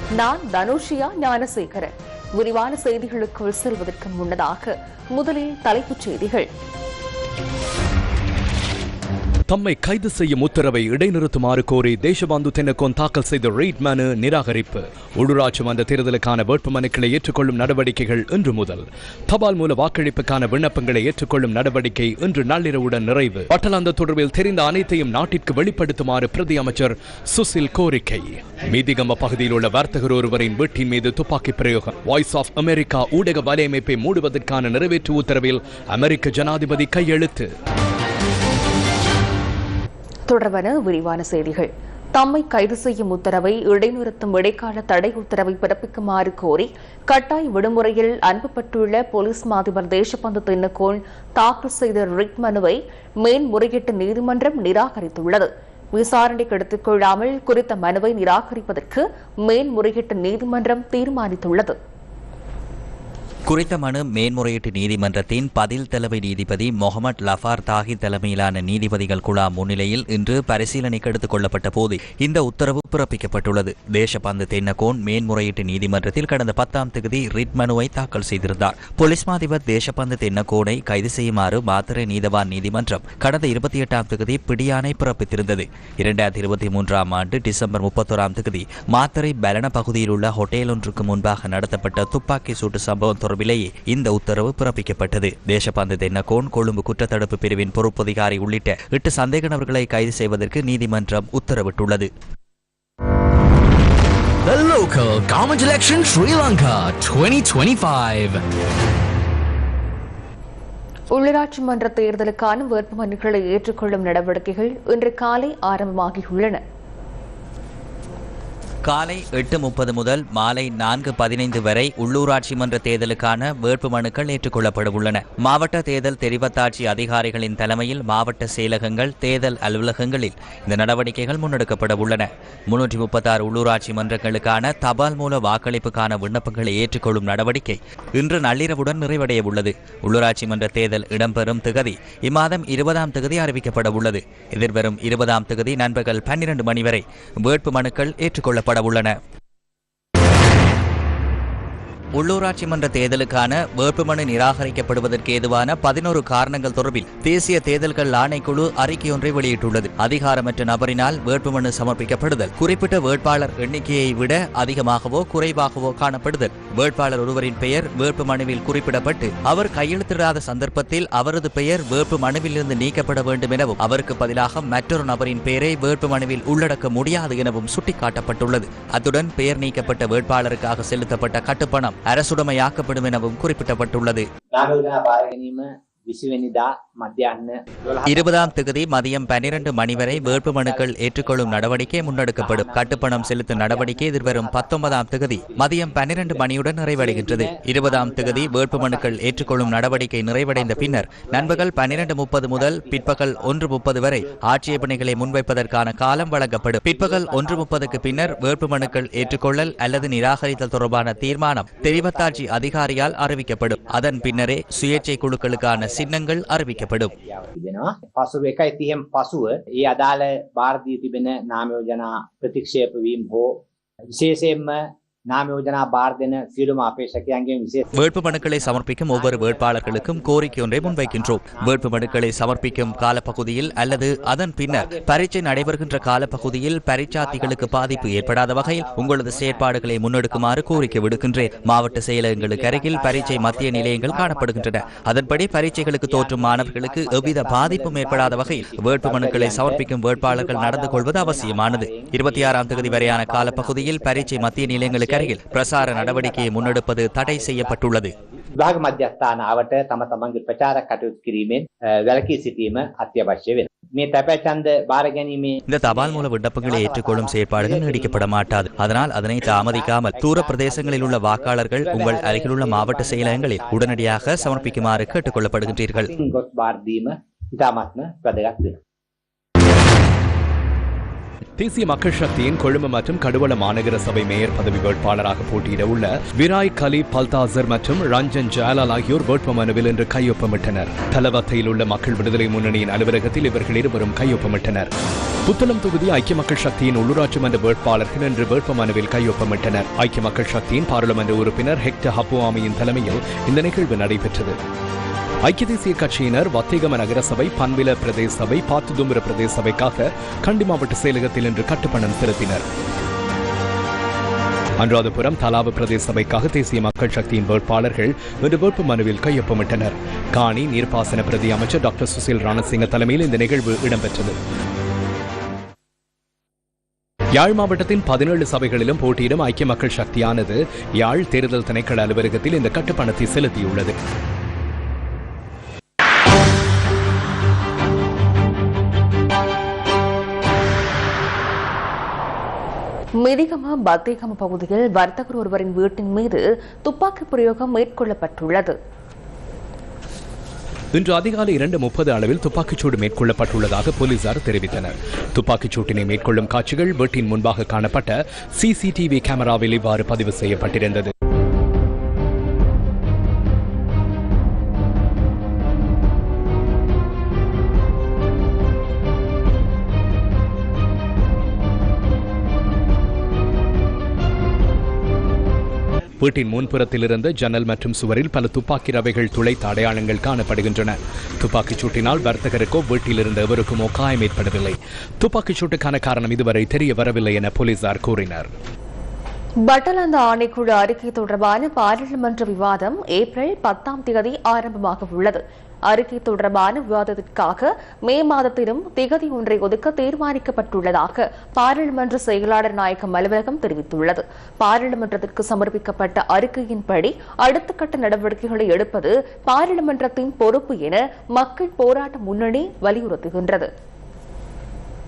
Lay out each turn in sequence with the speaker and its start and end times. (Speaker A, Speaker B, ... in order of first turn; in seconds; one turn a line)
Speaker A: 0.2-6.5
Speaker B: 9.5-37.5
Speaker A: 40.3-61.8
Speaker C: 63.5-102.1
Speaker D: 104.5-108.3
Speaker A: 111.2-116.6
Speaker C: 118.8-149.2
Speaker C: 152.2-184.2
Speaker E: 184.5-188.6
Speaker C: 188.1-217.1
Speaker E: 189.5-205.4
Speaker E: 206.1-223.6
Speaker E: 224.2-224.8
Speaker E: 225.3-257.8
Speaker C: 227.9-258.1
Speaker E: 258.6-278.8
Speaker C: 265.7-276.1
Speaker B: 281.6-294.9
Speaker B: 295.5-304.6
Speaker B: 305.4-312.6
Speaker B: 314.8-324.4
Speaker B: 327.4-333.9
Speaker A: 343.2-348.8
Speaker B: 350.9-361.1
Speaker B: 376.2-388.5
Speaker A: 389.7-413.7